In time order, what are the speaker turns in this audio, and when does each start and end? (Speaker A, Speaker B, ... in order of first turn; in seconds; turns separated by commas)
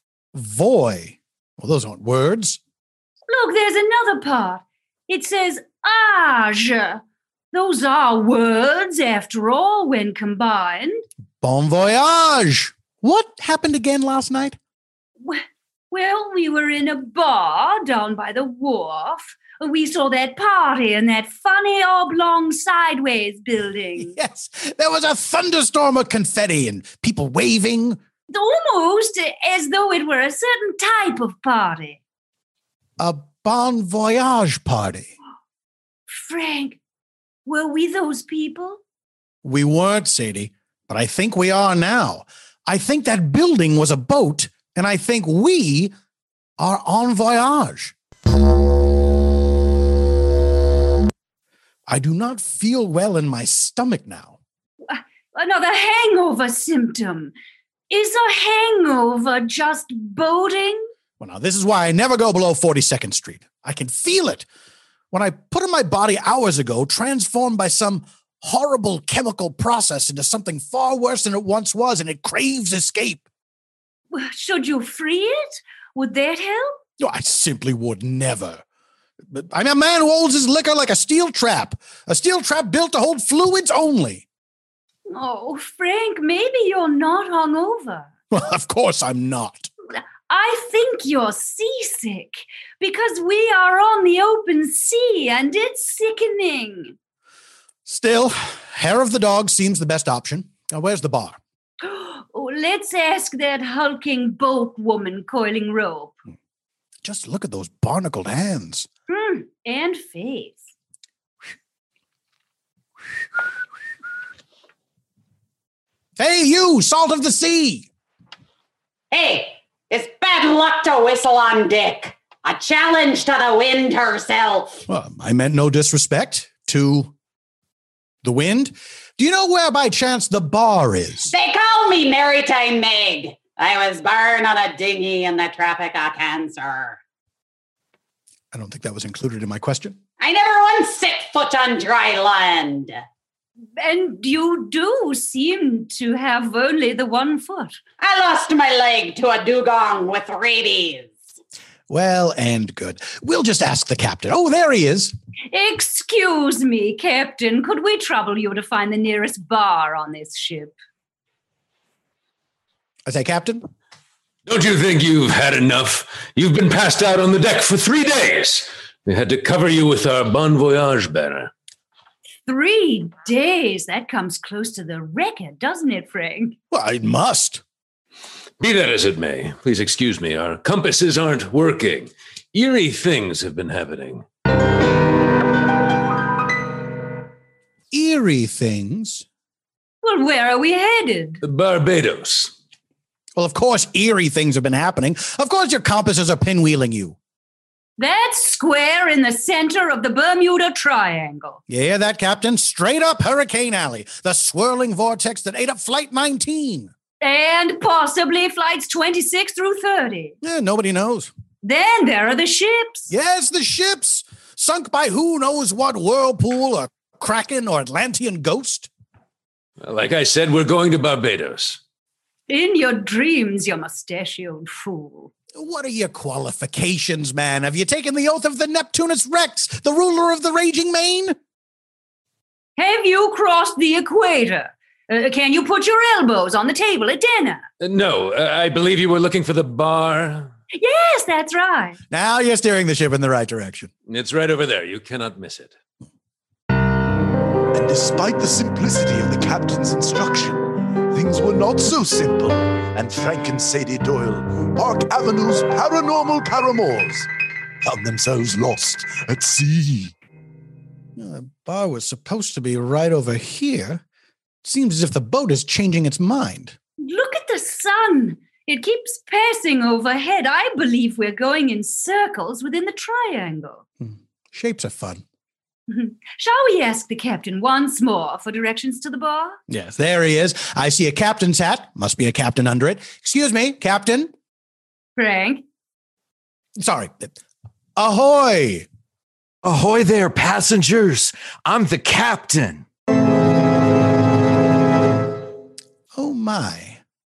Speaker A: 0.3-2.6, Speaker B: 3.3-7.0, Speaker B: 7.5-11.0, Speaker A: 11.4-14.6, Speaker B: 15.2-24.2, Speaker A: 24.0-28.0, Speaker B: 28.3-32.0, Speaker A: 33.0-35.1, Speaker B: 36.1-36.8, Speaker B: 37.5-38.8, Speaker A: 39.4-45.9, Speaker A: 46.6-48.0, Speaker A: 51.9-54.4, Speaker B: 54.9-57.3, Speaker B: 57.9-60.9, Speaker A: 61.2-64.5, Speaker A: 65.1-73.3, Speaker B: 74.1-76.8, Speaker A: 77.0-78.6, Speaker A: 79.3-84.3, Speaker B: 85.1-88.1, Speaker A: 88.3-89.7, Speaker B: 89.9-97.0, Speaker A: 97.9-101.4, Speaker B: 101.8-106.2, Speaker A: 107.0-108.9, Speaker B: 109.1-110.7, Speaker A: 116.2-117.9, Speaker C: 119.1-124.8, Speaker A: 124.9-127.1, Speaker A: 128.2-131.3, Speaker C: 131.3-137.0, Speaker A: 138.5-140.0, Speaker C: 140.2-143.0, Speaker B: 143.8-147.8, Speaker C: 148.0-151.2, Speaker A: 151.9-155.2, Speaker B: 155.5-160.7, Speaker A: 163.1-163.6, Speaker D: 164.5-171.5, Speaker B: 172.5-176.6, Speaker A: 176.7-177.6, Speaker D: 178.6-184.2, Speaker A: 187.9-189.3, Speaker B: 190.0-191.4, Speaker D: 191.4-192.5, Speaker A: 193.4-197.2, Speaker B: 198.0-201.6, Speaker A: 201.7-206.9, Speaker B: 207.2-210.3, Speaker A: 210.4-211.3, Speaker B: 211.6-213.1, Speaker A: 213.1-218.9, Speaker D: 219.8-221.8, Speaker B: 222.5-225.3, Speaker A: 225.6-231.4, Speaker B: 232.8-237.6, Speaker D: 237.8-240.5, Speaker B: 240.7-242.0, Speaker A: 242.1-243.9, Speaker D: 244.1-245.7, Speaker E: 247.7-257.3, Speaker E: 257.8-260.1, Speaker A: 261.2-264.0, Speaker A: 264.6-266.8, Speaker B: 267.0-273.8, Speaker A: 274.0-275.2, Speaker B: 275.9-279.6, Speaker A: 279.7-284.3, Speaker B: 285.2-285.6, Speaker A: 286.8-287.3, Speaker A: 288.0-288.9, Speaker F: 289.6-292.9, Speaker A: 296.1-297.0